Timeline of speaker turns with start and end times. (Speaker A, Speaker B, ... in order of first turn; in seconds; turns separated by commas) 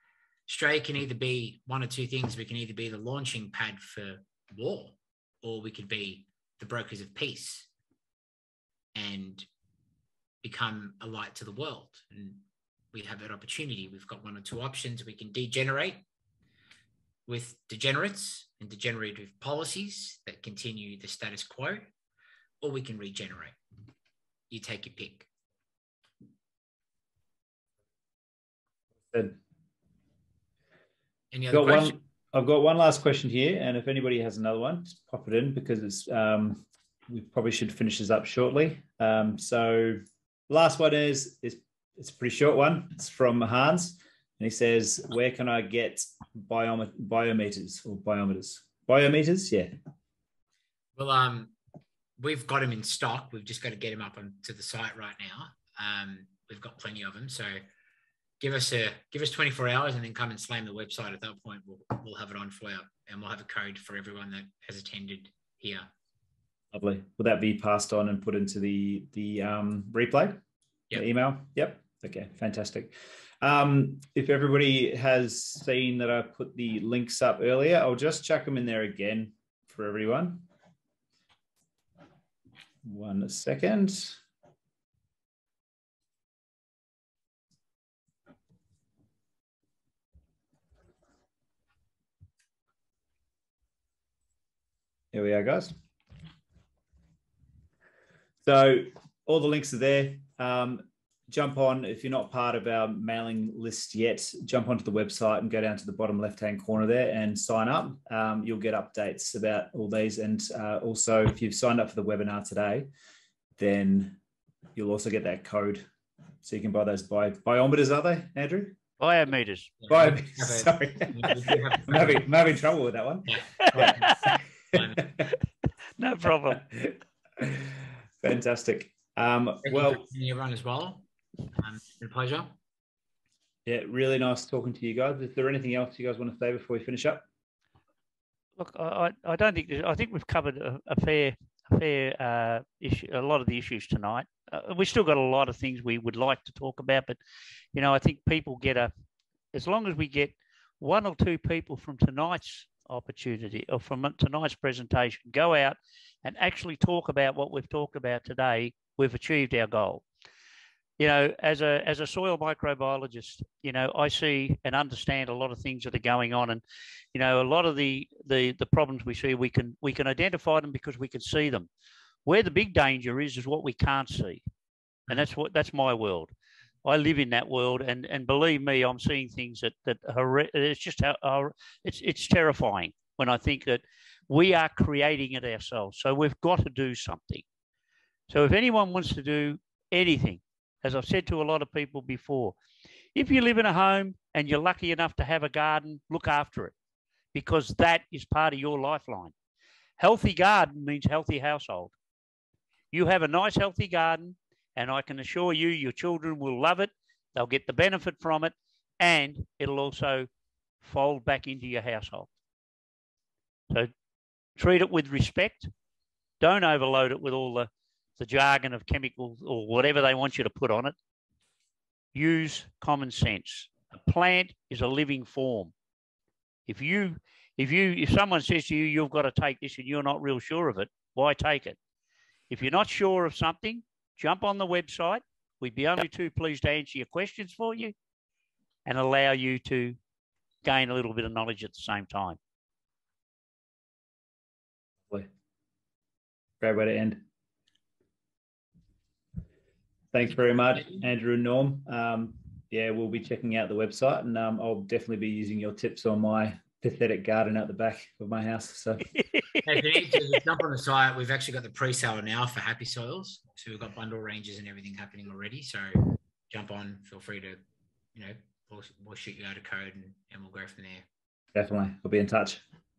Speaker A: 0.5-7.7, Speaker A: 8.9-9.5, Speaker A: 10.4-16.1, Speaker A: 17.3-21.9, Speaker A: 22.6-23.6, Speaker A: 24.5-25.3, Speaker B: 29.1-29.4, Speaker A: 31.3-32.0, Speaker B: 31.5-49.7, Speaker A: 51.0-51.5, Speaker A: 52.2-57.6, Speaker A: 58.4-65.9, Speaker B: 66.7-70.4, Speaker B: 70.9-80.5, Speaker B: 82.8-84.2, Speaker B: 95.1-95.8, Speaker B: 98.4-112.9, Speaker B: 113.6-114.2, Speaker B: 114.8-115.9, Speaker B: 116.4-118.8, Speaker C: 119.0-119.8, Speaker A: 119.8-122.3, Speaker B: 119.9-124.1, Speaker A: 123.3-125.0, Speaker C: 124.0-124.4, Speaker B: 124.7-125.3, Speaker C: 126.0-126.7, Speaker B: 126.7-130.0, Speaker A: 129.6-132.6, Speaker B: 133.7-137.2, Speaker C: 138.6-147.2, Speaker C: 147.7-148.9, Speaker C: 149.5-160.0, Speaker C: 161.0-166.6, Speaker C: 167.1-171.7, Speaker C: 172.3-174.4, Speaker C: 175.1-176.3, Speaker C: 176.8-187.4, Speaker C: 188.3-192.6, Speaker C: 193.2-196.7, Speaker C: 197.3-199.3, Speaker C: 200.0-201.9, Speaker C: 202.9-210.3, Speaker C: 210.8-212.3, Speaker C: 214.6-215.7, Speaker C: 216.4-220.9, Speaker C: 222.1-225.7, Speaker C: 226.7-231.8, Speaker C: 232.5-237.9, Speaker C: 238.9-240.0, Speaker C: 240.7-242.4, Speaker B: 246.6-247.2, Speaker B: 250.1-259.1, Speaker A: 259.6-267.6, Speaker A: 268.1-271.1, Speaker B: 271.6-272.6